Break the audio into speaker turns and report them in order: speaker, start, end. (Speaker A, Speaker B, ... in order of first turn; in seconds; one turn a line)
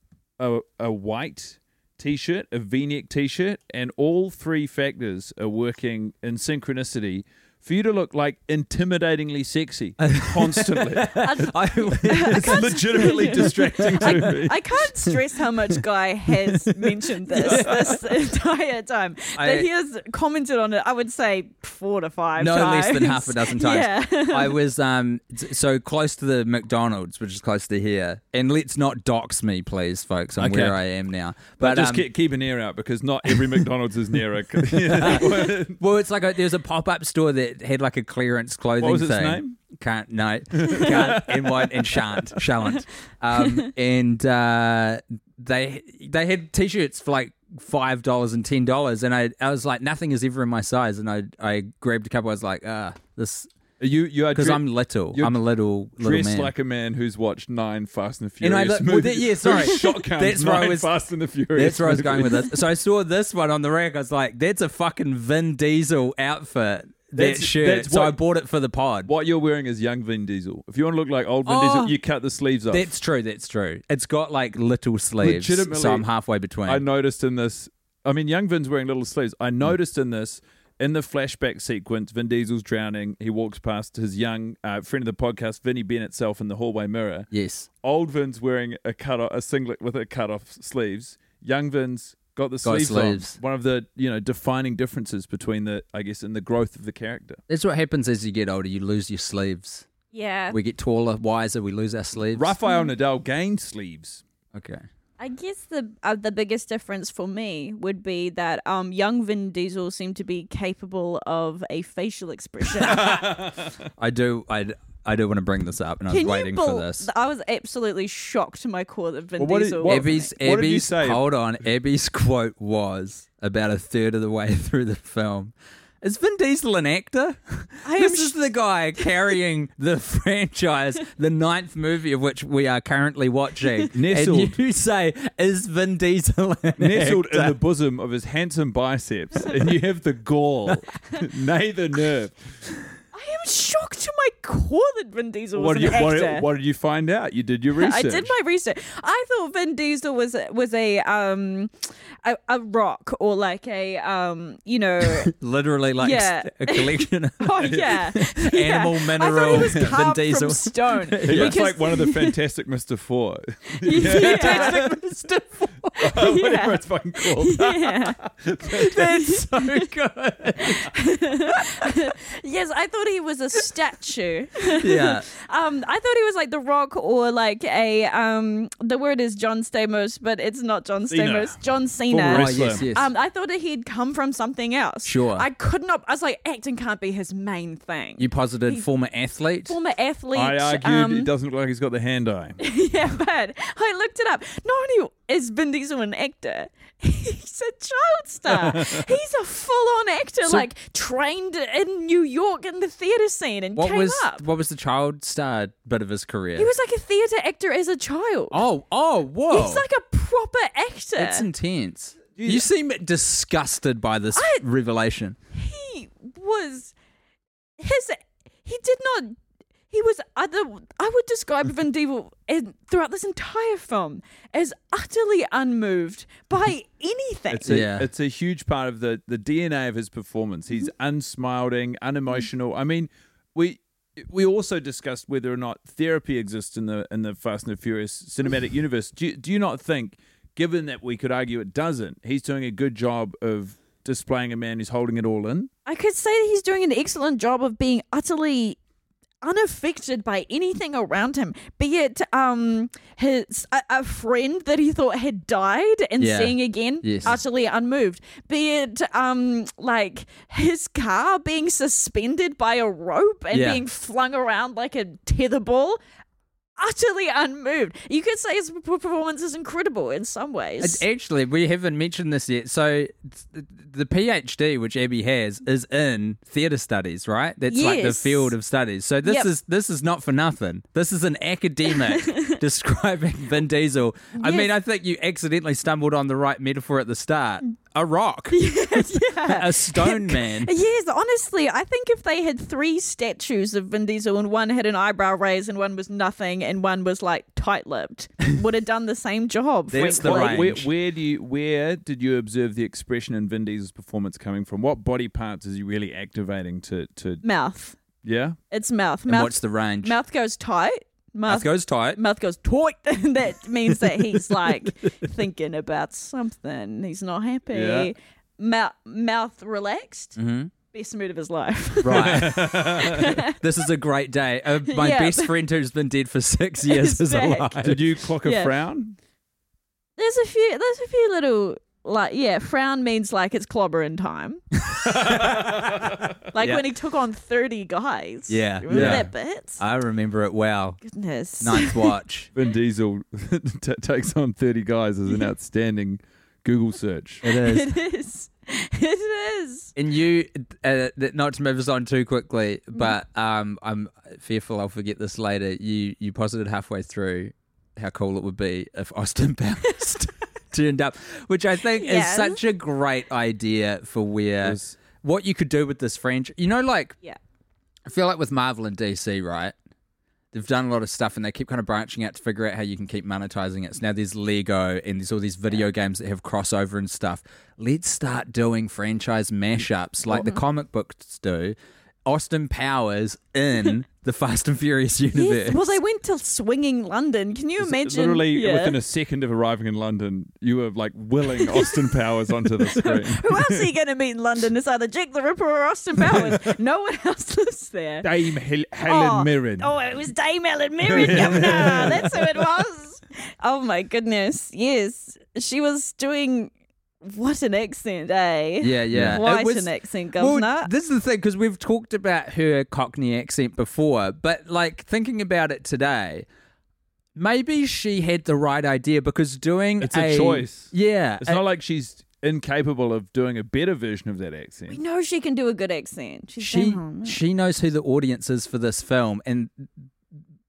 Speaker A: 0.4-11.3
Speaker B: 10.0-14.3
Speaker C: 11.2-24.6
Speaker A: 12.3-14.9
Speaker A: 17.3-17.9
Speaker B: 17.4-18.0
Speaker B: 19.4-19.7
Speaker B: 22.4-32.1
Speaker A: 30.4-30.8
Speaker A: 31.6-35.8
Speaker B: 33.3-33.6
Speaker B: 34.6-53.5
Speaker A: 38.8-39.6
Speaker A: 40.6-42.3
Speaker A: 53.8-55.4
Speaker B: 54.3-56.5
Speaker A: 56.0-62.5
Speaker B: 58.4-60.9
Speaker B: 61.5-69.1
Speaker A: 67.2-68.2
Speaker A: 69.1-72.9
Speaker B: 71.5-71.9
Speaker B: 72.7-76.8
Speaker A: 75.2-76.1
Speaker A: 76.7-87.3
Speaker B: 87.3-87.7
Speaker A: 87.8-97.4
Speaker B: 92.6-93.4
Speaker B: 97.5-99.9
Speaker C: 100.1-100.6
Speaker B: 100.5-102.6
Speaker A: 102.3-104.2
Speaker B: 104.5-104.8
Speaker C: 105.2-113.2
Speaker A: 112.8-113.9
Speaker B: 114.0-117.1
Speaker C: 116.1-120.3
Speaker A: 119.4-121.3
Speaker B: 119.8-137.6
Speaker C: 127.8-129.3
Speaker A: 133.9-134.6
Speaker A: 136.8-142.7
Speaker C: 143.1-146.5
Speaker A: 145.5-148.3
Speaker C: 147.8-155.3
Speaker B: 155.0-161.6
Speaker C: 156.0-162.3
Speaker A: 157.6-157.9
Speaker A: 159.5-159.8
Speaker A: 161.2-165.0
Speaker C: 163.8-164.8
Speaker B: 163.9-166.2
Speaker A: 166.0-169.8
Speaker C: 166.1-168.2
Speaker B: 168.7-170.9
Speaker C: 170.6-188.9
Speaker B: 174.7-175.3
Speaker A: 181.1-181.6
Speaker A: 182.1-182.8
Speaker B: 182.3-183.1
Speaker B: 185.0-185.4
Speaker B: 188.2-189.8
Speaker C: 189.7-191.3
Speaker A: 190.3-192.6
Speaker C: 192.6-204.4
Speaker A: 198.5-199.1
Speaker B: 203.8-206.7
Speaker C: 206.6-208.6
Speaker B: 208.5-209.8
Speaker C: 209.5-211.5
Speaker B: 211.2-215.4
Speaker A: 212.4-212.7
Speaker C: 214.3-214.6
Speaker C: 215.5-216.9
Speaker C: 217.8-219.4
Speaker C: 219.9-227.7
Speaker A: 227.5-245.7
Speaker B: 227.7-228.1
Speaker C: 245.9-248.8
Speaker C: 249.4-266.0
Speaker B: 256.2-257.4
Speaker B: 263.5-263.8
Speaker C: 266.8-271.0
Speaker B: 270.8-290.7
Speaker C: 277.7-278.5
Speaker C: 279.2-279.5
Speaker C: 281.9-282.6
Speaker C: 284.4-284.7
Speaker C: 288.5-300.7
Speaker B: 299.9-300.9
Speaker A: 299.9-307.4
Speaker C: 307.4-308.0
Speaker A: 308.2-308.6
Speaker C: 308.7-320.4
Speaker B: 309.3-310.2
Speaker B: 311.5-312.2
Speaker A: 317.7-318.1
Speaker B: 320.4-320.7
Speaker C: 320.9-323.6
Speaker B: 322.0-328.0
Speaker A: 322.1-323.3
Speaker C: 324.9-325.5
Speaker C: 326.9-327.9
Speaker A: 327.8-329.2
Speaker C: 328.4-328.7
Speaker C: 330.2-334.6
Speaker B: 334.8-336.9
Speaker A: 335.2-336.1
Speaker C: 336.5-339.8
Speaker B: 338.5-341.0
Speaker A: 338.9-339.3
Speaker C: 341.0-342.2
Speaker B: 341.6-342.5
Speaker A: 342.5-347.5
Speaker B: 347.4-347.9
Speaker C: 347.5-349.9
Speaker B: 350.0-367.2
Speaker C: 361.9-362.6
Speaker A: 364.6-365.0
Speaker B: 368.1-369.7
Speaker B: 370.5-385.9
Speaker C: 385.3-389.0
Speaker A: 387.8-393.9
Speaker C: 391.6-392.1
Speaker C: 392.9-398.3
Speaker A: 396.2-396.8
Speaker A: 398.2-399.9
Speaker C: 399.0-410.9
Speaker A: 401.1-402.6
Speaker B: 408.8-416.5
Speaker A: 409.1-409.4
Speaker B: 417.4-421.6
Speaker A: 420.0-425.0
Speaker C: 424.9-427.4
Speaker B: 426.6-430.1